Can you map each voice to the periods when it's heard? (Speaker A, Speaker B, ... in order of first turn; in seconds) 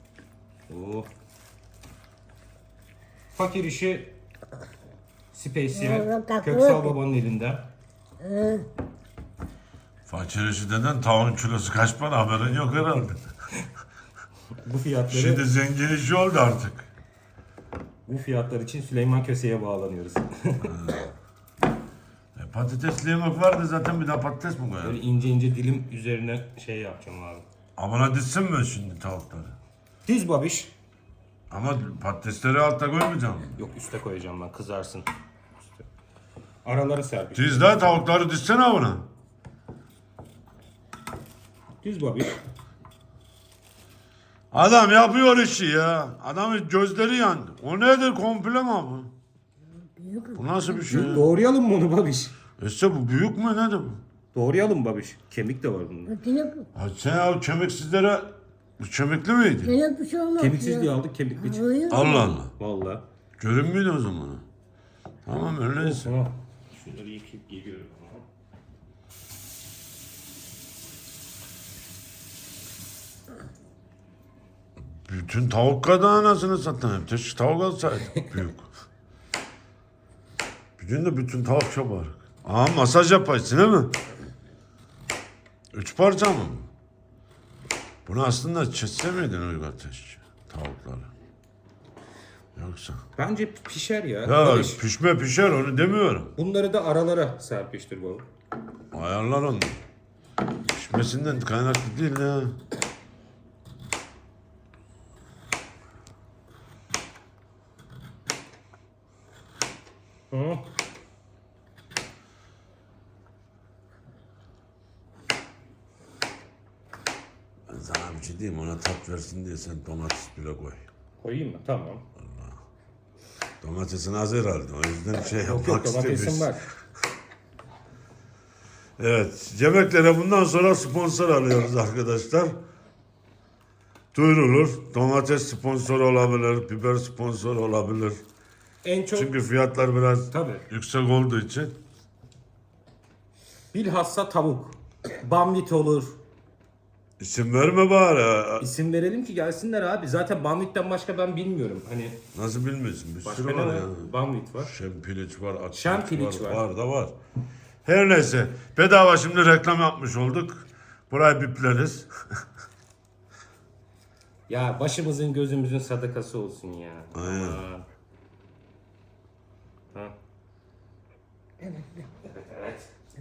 Speaker A: 0.7-1.1, 3.4-4.2, 5.3-7.7, 14.6-15.4, 18.1-21.0, 24.8-27.4, 30.1-30.7, 33.6-35.1, 36.6-37.9, 41.8-42.4, 50.9-52.3, 54.3-56.1, 60.4-61.7, 62.6-63.0, 65.8-68.2, 93.2-94.8, 96.4-98.3, 110.3-110.7, 121.2-122.0, 125.3-126.6, 138.8-139.3, 140.3-140.7, 143.7-146.2, 148.6-152.2, 153.2-154.7, 155.7-156.6, 164.5-167.8, 172.2-172.9
Speaker B: 5.7-7.0, 8.2-8.7, 50.0-51.1, 56.1-56.7, 59.6-62.4, 171.6-172.0
Speaker C: 10.1-13.3, 15.1-16.9, 20.6-21.1, 22.4-25.0, 27.8-29.5, 31.5-33.5, 37.4-39.0, 44.5-49.1, 50.4-51.3, 52.6-54.0, 56.7-59.8, 61.9-62.5, 63.4-64.4, 65.3-66.1, 75.0-78.7, 80.8-84.0, 85.7-86.7, 88.1-91.1, 92.6-93.0, 94.2-96.3, 98.9-99.8, 100.7-102.6, 117.7-120.9, 122.2-122.6, 123.6-126.6, 129.0-132.6, 134.1-138.2, 139.1-141.8, 147.2-148.7, 152.3-154.1, 154.6-157.1, 157.8-162.1, 167.2-167.6